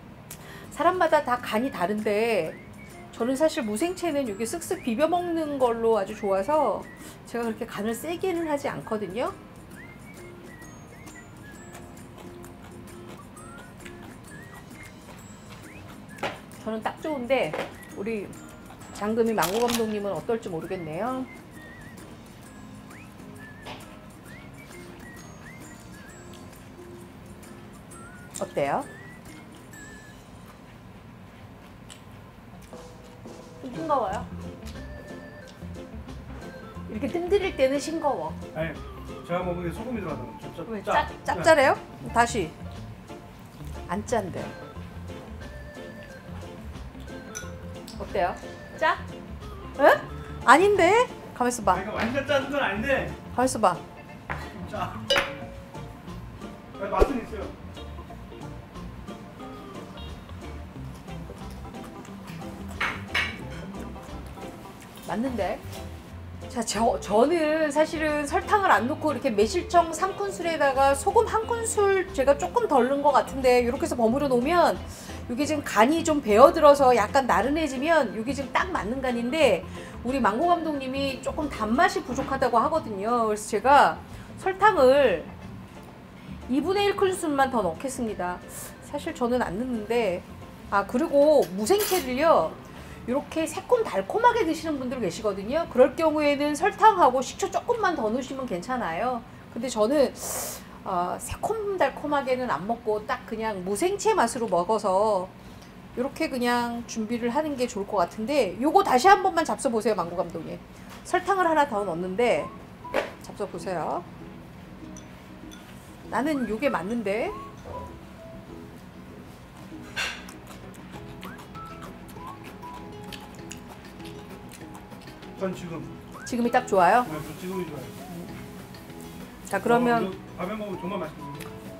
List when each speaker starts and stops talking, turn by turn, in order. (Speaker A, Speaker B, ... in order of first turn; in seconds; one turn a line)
Speaker A: 0.7-2.6
Speaker A: 3.1-9.4
Speaker A: 16.6-18.4
Speaker A: 18.9-21.3
Speaker A: 28.4-28.9
Speaker A: 33.6-34.3
Speaker A: 36.9-38.4
Speaker B: 38.5-41.5
Speaker A: 40.7-42.5
Speaker A: 43.9-44.5
Speaker A: 48.0-49.0
Speaker A: 49.8-51.9
Speaker B: 51.7-53.2
Speaker A: 53.3-53.8
Speaker B: 54.5-55.1
Speaker B: 56.8-57.5
Speaker A: 65.0-65.6
Speaker A: 66.5-85.3
Speaker A: 86.5-105.3
Speaker A: 106.0-112.5
Speaker A: 113.2-114.1
Speaker A: 116.1-117.4
Speaker B: 125.3-125.9
Speaker A: 126.2-127.1
Speaker B: 127.1-128.0
Speaker A: 129.5-130.1
Speaker B: 129.6-131.5